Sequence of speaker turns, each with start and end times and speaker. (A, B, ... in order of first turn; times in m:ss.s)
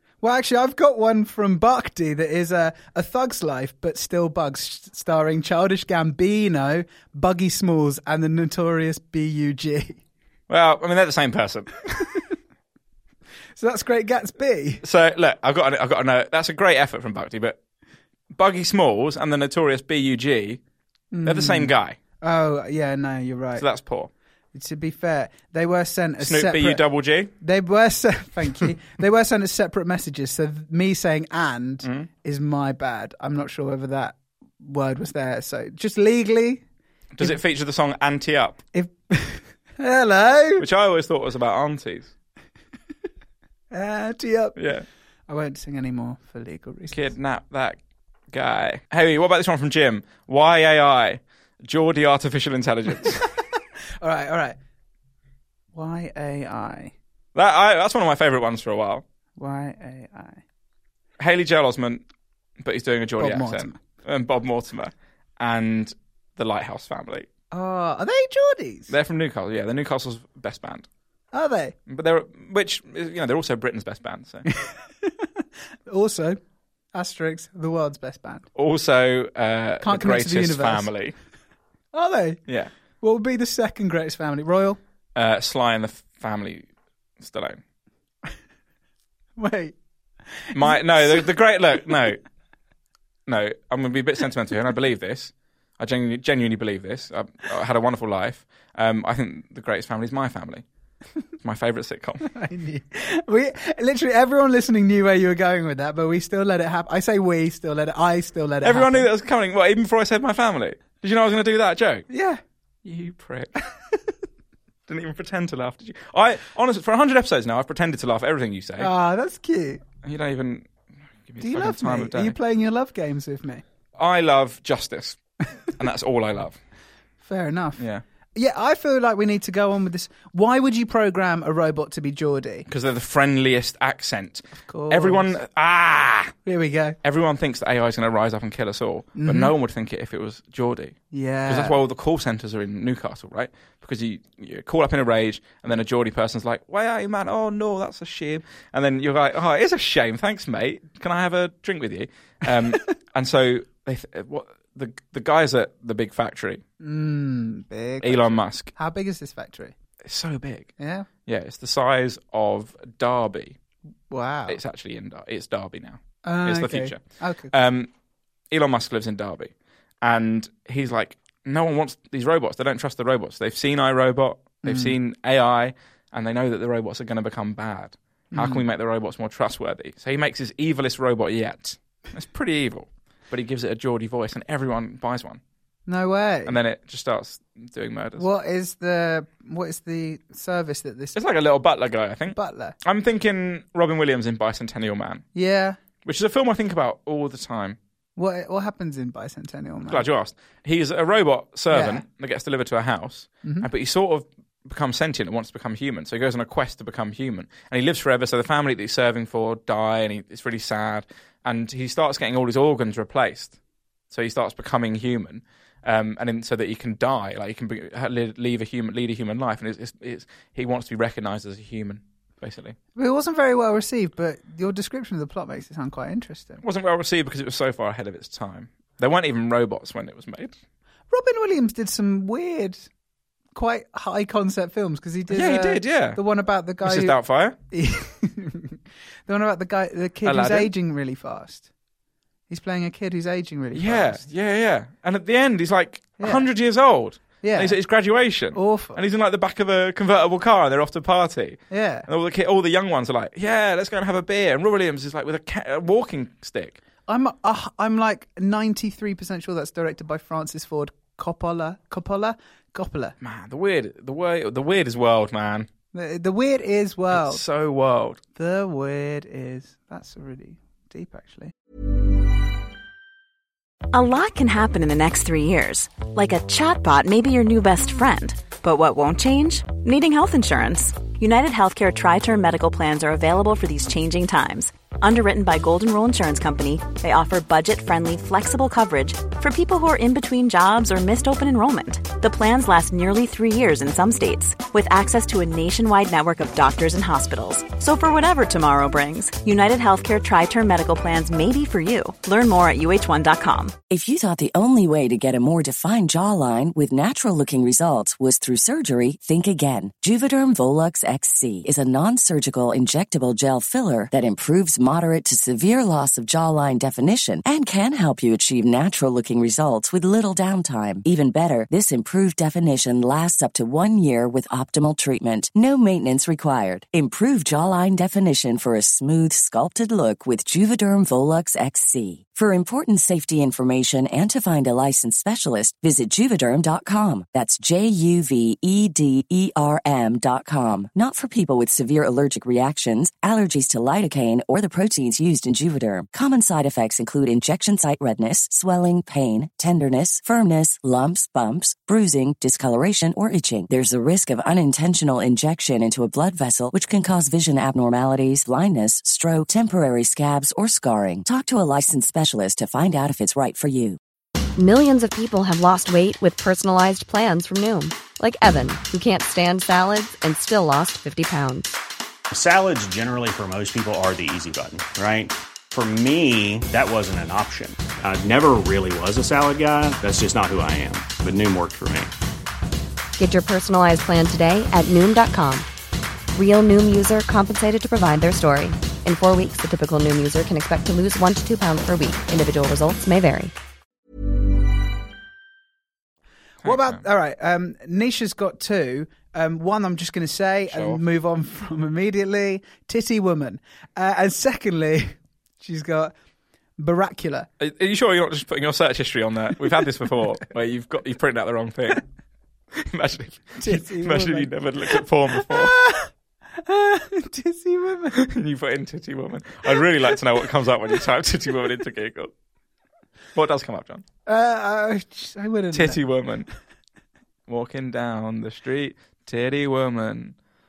0:00.2-0:10.0 A
0:10.5-0:12.2 B
0:13.6-0:14.8 A
0:14.8-0:17.6 B
0:18.3-0:20.6 B
0:21.1-0:23.6 A
0:21.2-0:22.0 B
0:23.6-0:24.1 B
0:24.5-0:26.8 A
0:26.2-0:27.3 B
0:27.4-0:36.6 A
0:37.2-0:38.6 B
0:38.7-0:40.7 A
0:40.6-0:42.1 B
0:43.7-0:44.6 A
0:44.6-0:44.8 B
0:45.3-0:47.1 A
0:46.9-0:47.8 B
0:48.3-0:53.3 B
0:54.0-0:54.6 A
0:55.7-0:56.9 A
0:57.4-0:59.0 B
0:59.4-1:00.4 A
1:01.2-1:02.0 B
1:02.6-1:07.3 B
1:03.2-1:03.8 A
1:07.5-1:08.9 A
1:08.9-1:10.9 B
1:11.3-1:11.8 A
1:11.9-1:14.5 B
1:14.5-1:16.4 A
1:16.9-1:18.5 A
1:18.6-1:21.2 B
1:19.8-1:20.9 A
1:21.9-1:22.4 A
1:23.0-1:24.8 A
1:25.2-1:26.7 B
1:27.2-1:27.6 B
1:29.4-1:29.8 A
1:30.4-1:31.3 A
1:30.5-1:32.2 B
1:33.3-1:40.6 B
1:41.4-1:42.3 B
1:42.3-1:49.1 A
1:48.6-1:52.1 B
1:52.1-1:52.4 A
1:52.8-1:53.5 B
1:54.9-1:58.9 B
1:58.8-1:59.8 A
2:00.0-2:00.7 B
2:01.3-2:02.4 B
2:01.4-2:03.6 A
2:04.0-2:05.2 B
2:05.7-2:06.6 B
2:07.2-2:07.8 A
2:08.4-2:12.7 A
2:12.7-2:16.3 B
2:14.6-2:15.4 A
2:16.4-2:17.0 A
2:17.0-2:36.6 B
2:19.2-2:19.5 A
2:21.1-2:21.8 A
2:36.8-2:39.7 A
2:38.0-2:38.7 B
2:40.0-2:40.7 B
2:40.8-2:41.1 A
2:41.2-2:43.6 B
2:44.1-2:44.6 A
2:44.5-2:47.0 B
2:46.2-2:47.5 A
2:47.5-2:47.9 B
2:48.5-2:49.5 B
2:50.0-3:05.4 B
2:54.6-2:54.9 A
2:58.3-2:58.6 A
3:05.9-3:06.6 A
3:06.5-3:08.3 B
3:08.2-3:11.2 A
3:11.2-3:15.2 B
3:12.3-3:12.8 A
3:15.4-3:15.8 A
3:16.0-3:17.8 B
3:18.2-3:20.0 A
3:19.9-3:33.5 B
3:21.7-3:22.0 A
3:34.1-3:42.8 B
3:43.0-3:46.6 A
3:46.6-3:50.6 B
3:51.1-3:52.9 A
3:53.6-3:57.2 A
3:55.3-3:56.2 B
3:56.8-3:57.6 B
3:57.7-4:01.7 A
4:00.2-4:00.7 B
4:02.5-4:04.2 A
4:03.8-4:16.8 B
4:06.2-4:06.5 A
4:07.4-4:07.8 A
4:08.5-4:09.0 A
4:11.7-4:12.1 A
4:17.1-4:23.2 A
4:23.2-4:25.7 B
4:25.9-4:27.4 A
4:27.1-4:28.2 B
4:28.4-4:31.5 A
4:33.9-5:03.8 C
5:03.9-6:04.0 D
6:04.6-6:11.8 E
6:12.3-6:22.1 F
6:23.2-6:25.7 E
6:26.3-6:33.5 E
6:36.6-6:46.1 A
6:36.6-6:37.0 B
6:40.7-6:41.0 B
6:46.8-6:47.5 A
6:47.6-6:52.0 B
6:52.8-6:55.8 B
6:53.6-6:54.5 A
6:55.4-6:58.2 A
6:58.1-7:02.3 B
7:03.4-7:04.0 B
7:04.3-7:06.0 A
7:05.7-7:06.5 B
7:07.5-7:10.4 B